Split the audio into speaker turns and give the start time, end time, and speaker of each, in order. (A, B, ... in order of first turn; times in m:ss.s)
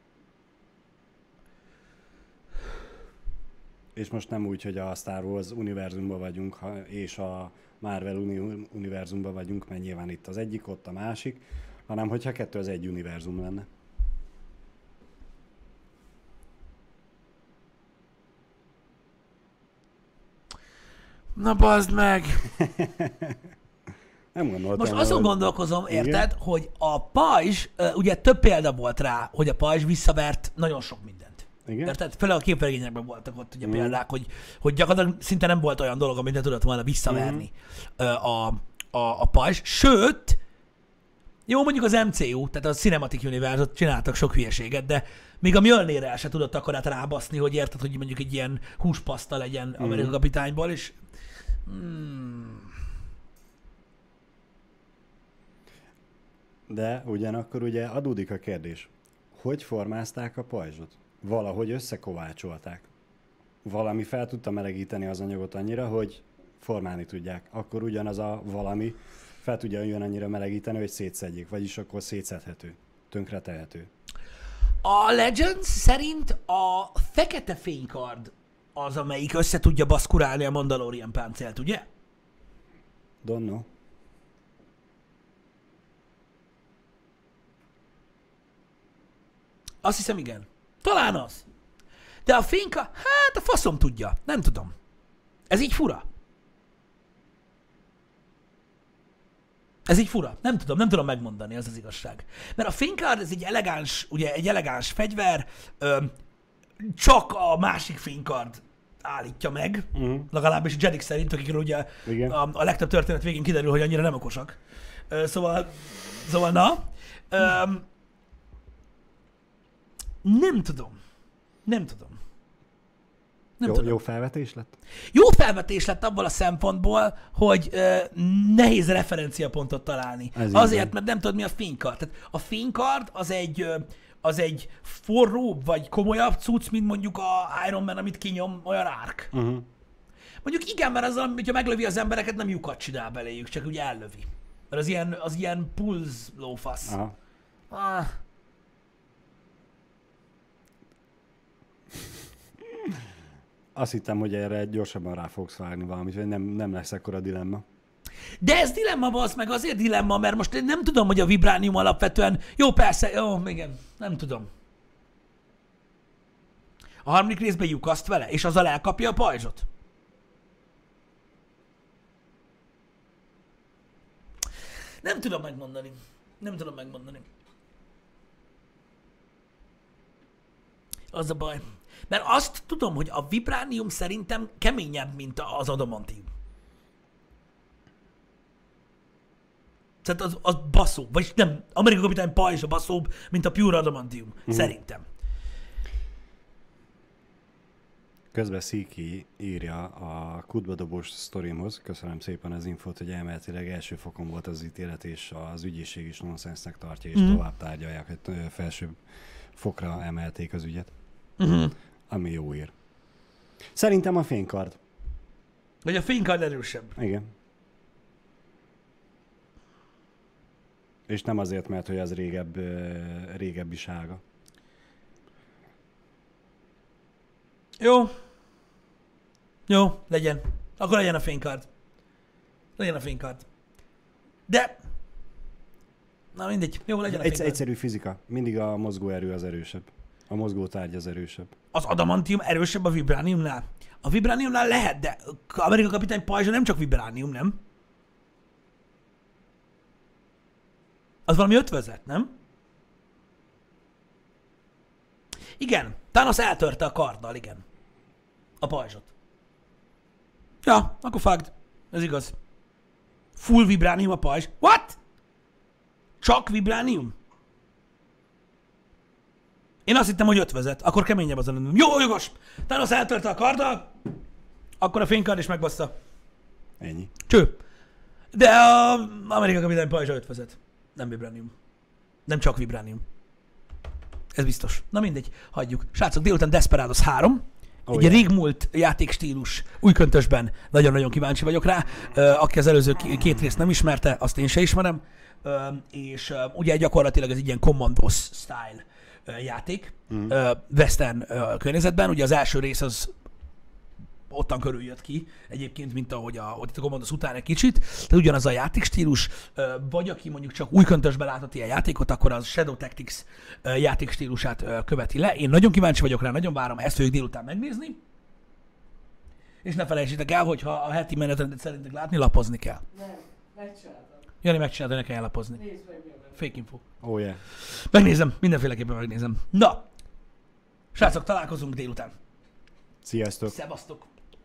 0:03.9-0:13.7 A
0:21.4-0:22.5 B
0:22.6-0:23.4 A
0:24.3-0:26.3 A
0:24.7-0:40.4 B
0:31.6-0:31.9 A
0:33.6-0:34.0 A
0:37.1-0:37.4 A
0:41.5-0:51.0 B
0:49.8-0:50.2 A
0:51.6-0:52.7 B
0:56.7-1:02.9 A
1:03.6-1:13.9 A
1:14.8-1:21.9 B
1:23.2-1:23.7 A
1:29.8-1:31.4 B
1:32.2-1:34.7 B
1:35.5-1:36.0 B
1:39.9-1:46.1 B
1:46.8-1:54.6 B
1:49.9-1:50.3 A
1:52.0-1:52.4 A
1:55.1-1:57.8 B
2:00.2-2:01.0 B
2:01.6-2:02.2 B
2:03.6-2:04.0 B
2:03.6-2:04.8 A
2:05.1-2:19.3 B
2:10.3-2:10.9 A
2:19.3-2:19.6 A
2:20.4-2:27.0 B
2:26.9-2:27.1 A
2:27.7-2:28.1 B
2:33.7-2:37.6 A
2:38.4-2:44.5 B
2:47.0-2:49.6 B
2:55.0-2:57.2 B
3:01.1-3:06.3 B
3:10.0-3:15.0 B
3:14.5-3:14.7 A
3:18.3-3:29.0 A
3:27.1-3:27.4 B
3:29.5-3:30.9 A
3:31.4-3:31.7 B
3:32.1-3:32.7 A
3:33.7-3:34.8 A
3:35.8-3:37.0 B
3:37.0-3:37.3 A
3:41.1-3:44.2 A
3:47.8-3:48.1 B
3:49.7-3:51.7 B
3:52.8-3:53.4 B
3:54.5-3:54.8 B
3:56.3-3:57.6 B
3:57.1-4:01.5 A
4:01.7-4:07.6 B
4:11.3-4:12.3 B
4:15.6-4:17.6 B
4:18.6-4:19.1 B
4:20.6-4:22.3 B
4:23.4-4:25.0 B
4:26.2-4:27.1 B
4:29.8-4:33.9 B
4:34.8-4:35.9 B
4:36.8-4:37.1 A
4:37.3-4:37.6 B
4:38.3-4:41.5 B
4:42.3-4:43.0 B
4:44.3-5:03.1 B
4:47.9-4:48.3 A
5:00.1-5:00.3 A
5:04.3-5:18.0 B
5:19.6-5:22.8 B
5:22.9-5:24.3 C
5:24.4-5:25.7 B
5:25.6-5:26.4 C
5:26.3-5:26.8 B
5:27.0-5:27.4 A
5:27.6-5:29.8 B
5:30.9-5:32.1 B
5:33.0-5:33.5 A
5:33.5-5:34.1 B